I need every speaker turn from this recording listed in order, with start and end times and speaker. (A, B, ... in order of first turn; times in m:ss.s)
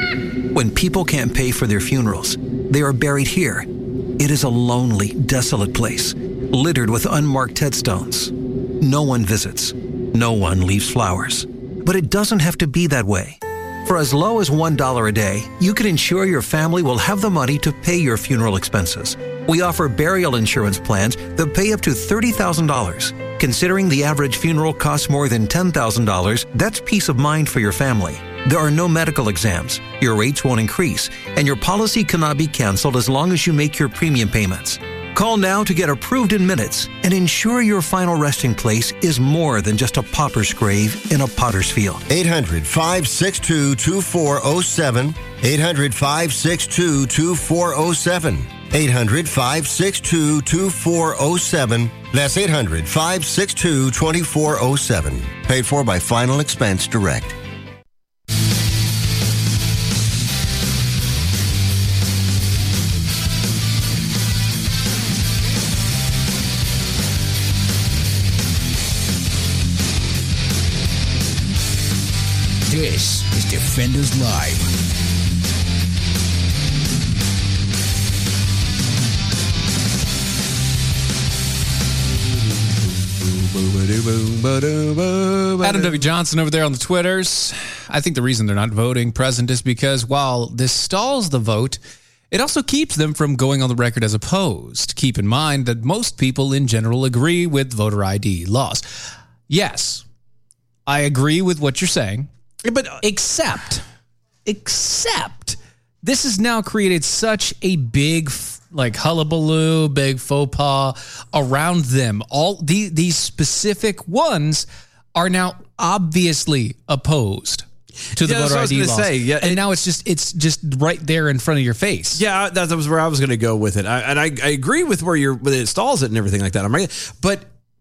0:00.5-0:42.0 A
0:42.1-0:57.4 B
1:12.7-1:14.7 C
1:22.7-1:26.1 D
1:25.6-1:31.8 E
1:32.3-1:40.0 E
1:40.9-1:42.3 E
1:42.6-1:43.0 D
1:43.0-1:43.8 E
1:44.5-2:02.2 E
1:58.1-1:59.6 D
2:02.2-2:07.5 D